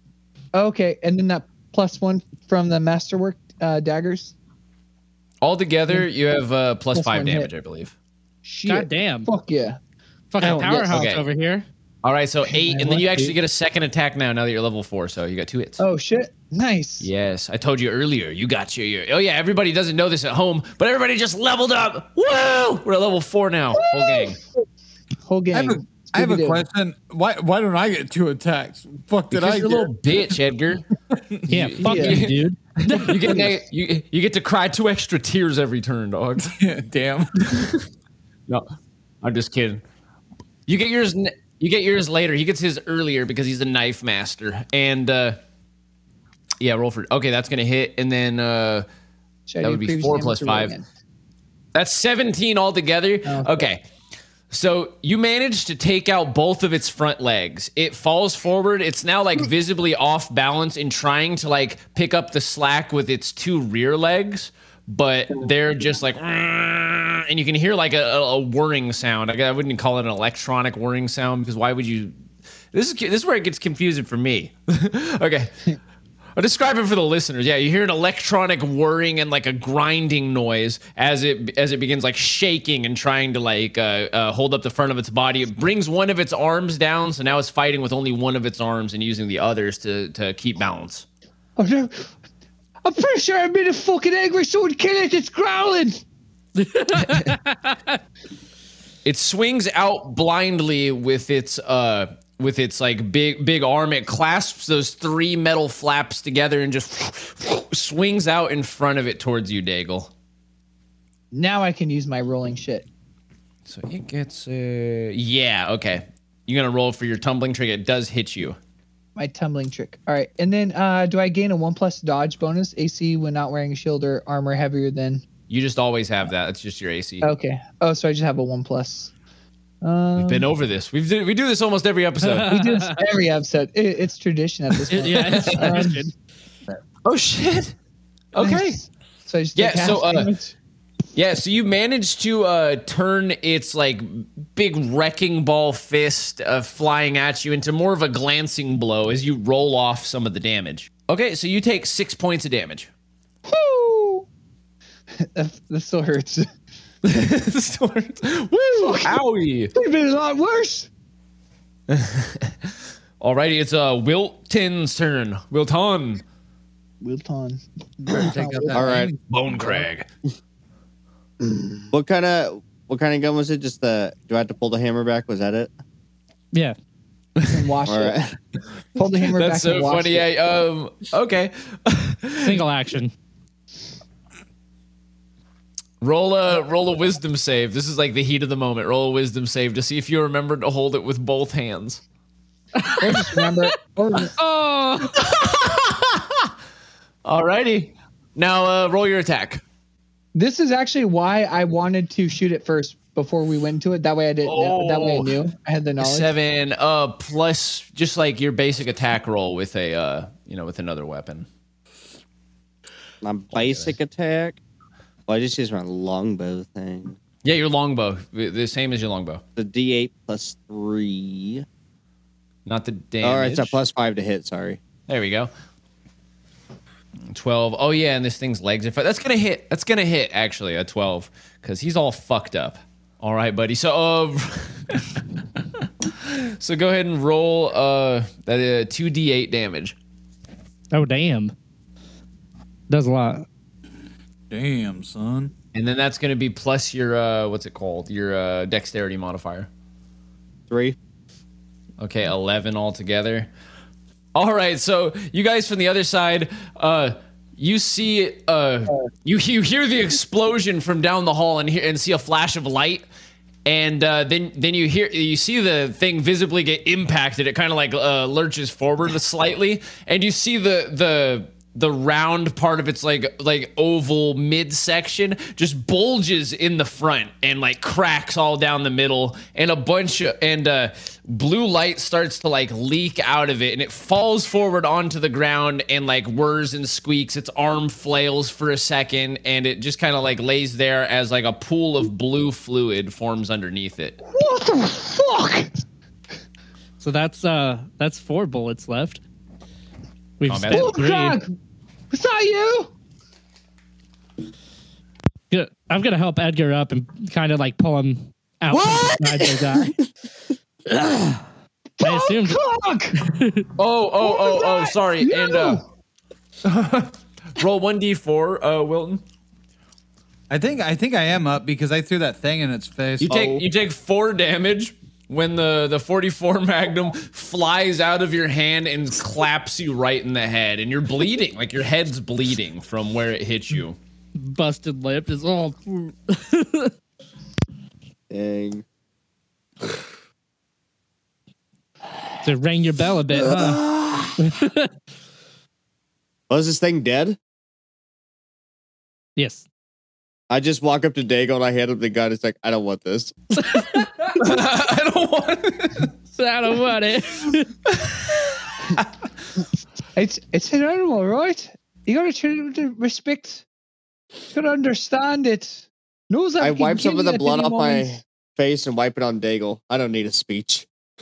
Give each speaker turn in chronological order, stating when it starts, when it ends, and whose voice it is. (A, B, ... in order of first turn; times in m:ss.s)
0:00.5-0:04.3 A
0:05.4-0:07.9 B
0:06.9-0:07.5 A
0:08.4-0:09.8 A
0:08.7-0:09.3 C
0:10.3-0:11.7 C
0:10.4-0:11.0 A
0:10.9-0:11.2 B
0:12.0-0:15.8 B
0:12.5-0:13.4 A
0:15.8-0:17.1 A
0:17.0-0:24.4 B
0:23.8-0:24.4 A
0:25.3-0:26.6 A
0:25.5-0:30.4 D
0:29.3-0:30.8 B
0:31.1-0:31.4 D
0:31.5-0:36.5 B
0:31.5-0:33.4 C
0:31.8-0:32.3 A
0:33.2-0:33.5 A
0:36.4-0:37.7 D
0:37.4-0:37.8 B
0:39.2-0:39.8 B
0:40.7-0:45.4 B
0:46.6-0:48.9 B
0:49.5-0:50.8 A
0:49.6-0:50.8 B
0:51.8-0:53.8 B
0:53.2-0:53.7 A
0:54.5-1:12.2 B
1:12.7-1:15.5 B
1:16.4-1:31.1 B
1:31.6-1:32.1 A
1:32.8-1:36.0 A
1:36.6-1:37.8 C
1:36.9-1:37.4 B
1:39.0-1:50.1 B
1:51.3-1:52.9 A
1:53.7-1:58.6 B
1:59.2-2:05.2 A
2:05.5-2:07.3 B
2:07.2-2:09.1 A
2:09.8-2:10.5 A
2:10.2-2:12.5 B
2:12.2-2:13.0 C
2:12.4-2:16.1 A
2:14.9-2:16.1 C
2:15.1-2:15.8 B
2:17.0-2:17.8 B
2:18.3-2:18.8 B
2:18.4-2:20.6 A
2:19.6-2:20.3 B
2:21.2-2:32.9 B
2:33.5-2:34.2 A
2:35.2-2:36.5 A
2:37.0-2:39.7 B
2:38.8-2:39.2 A
2:39.8-2:40.9 A
2:41.9-2:46.2 B
2:47.0-2:48.9 A
2:48.2-2:49.9 D
2:48.7-2:49.1 E
2:49.3-2:50.1 B
2:51.9-2:55.7 E
2:57.4-2:57.7 B
2:57.5-2:58.2 A
2:57.9-2:58.4 E
2:59.0-3:00.3 A
2:59.3-3:02.6 B
3:02.4-3:03.1 C
3:06.0-3:12.0 B
3:12.8-3:15.3 C
3:13.0-3:14.4 A
3:15.2-3:16.5 B
3:17.2-3:19.6 B
3:20.4-3:26.3 A
3:24.4-3:25.3 B
3:26.0-3:31.5 B
3:33.2-3:34.6 E
3:33.6-3:33.9 B
3:35.3-3:37.2 E
3:37.4-3:39.4 B
3:39.6-3:41.6 E
3:42.7-3:43.8 B
3:43.2-3:44.8 E
3:45.1-3:45.5 B
3:47.3-3:55.2 B
3:55.8-4:00.0 B
4:00.9-4:01.5 C
4:02.9-4:03.4 C
4:04.5-4:05.5 D
4:05.7-4:09.7 B
4:10.7-4:11.0 E
4:12.0-4:13.5 B
4:14.4-4:23.0 B
4:23.6-4:54.2 B
4:54.3-4:55.7 A
4:57.0-4:59.2 C
5:00.4-5:01.4 C
5:00.5-5:00.9 B
5:00.7-5:01.5 A
5:02.1-5:02.9 A
5:05.5-5:10.0 C
5:10.9-5:11.5 C
5:12.0-5:13.2 A
5:12.0-5:12.6 C
5:13.2-5:13.7 C
5:13.8-5:15.8 B
5:14.2-5:15.8 A
5:16.6-5:19.2 B
5:20.5-5:23.4 D
5:23.3-5:34.0 B
5:23.3-5:23.6 E
5:34.4-5:36.9 C
5:38.3-5:38.8 E
5:42.4-5:44.9 C
5:43.5-5:44.3 E
5:46.5-5:47.4 E
5:49.4-5:49.6 C
5:50.5-5:53.3 E
5:53.6-5:54.4 C
5:54.4-5:56.1 B
5:56.4-5:57.7 C
5:57.9-5:59.1 B
6:00.2-6:03.6 A
6:04.5-6:08.1 A
6:06.6-6:10.9 E